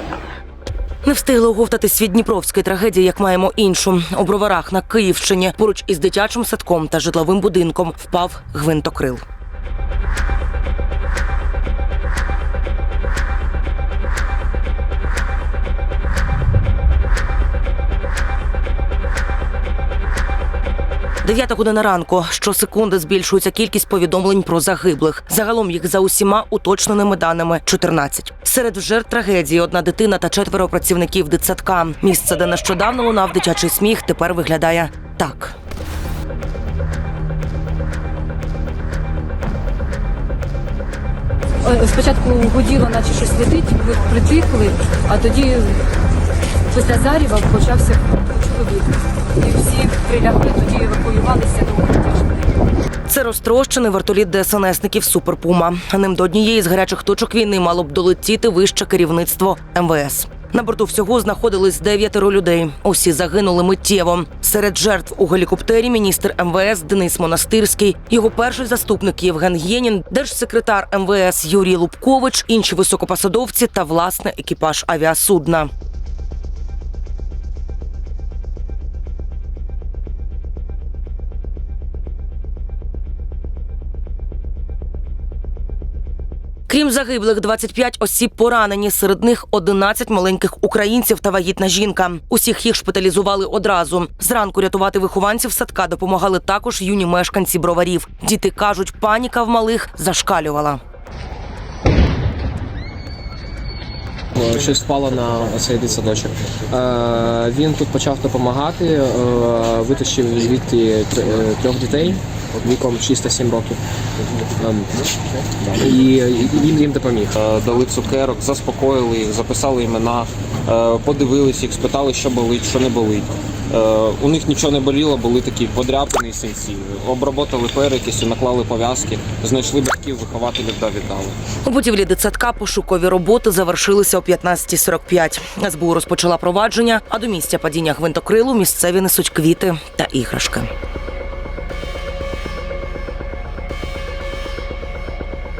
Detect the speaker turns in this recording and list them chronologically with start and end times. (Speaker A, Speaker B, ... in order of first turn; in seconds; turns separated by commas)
Speaker A: 1.0-9.2, Speaker A: 21.2-35.6, Speaker B: 41.6-45.9, Speaker B: 46.7-52.6, Speaker A: 53.1-75.7, Speaker A: 86.7-100.8, Speaker C: 104.4-113.8, Speaker C: 114.6-114.9, Speaker C: 115.6-117.4, Speaker D: 117.3-131.4, Speaker A: 131.6-140.7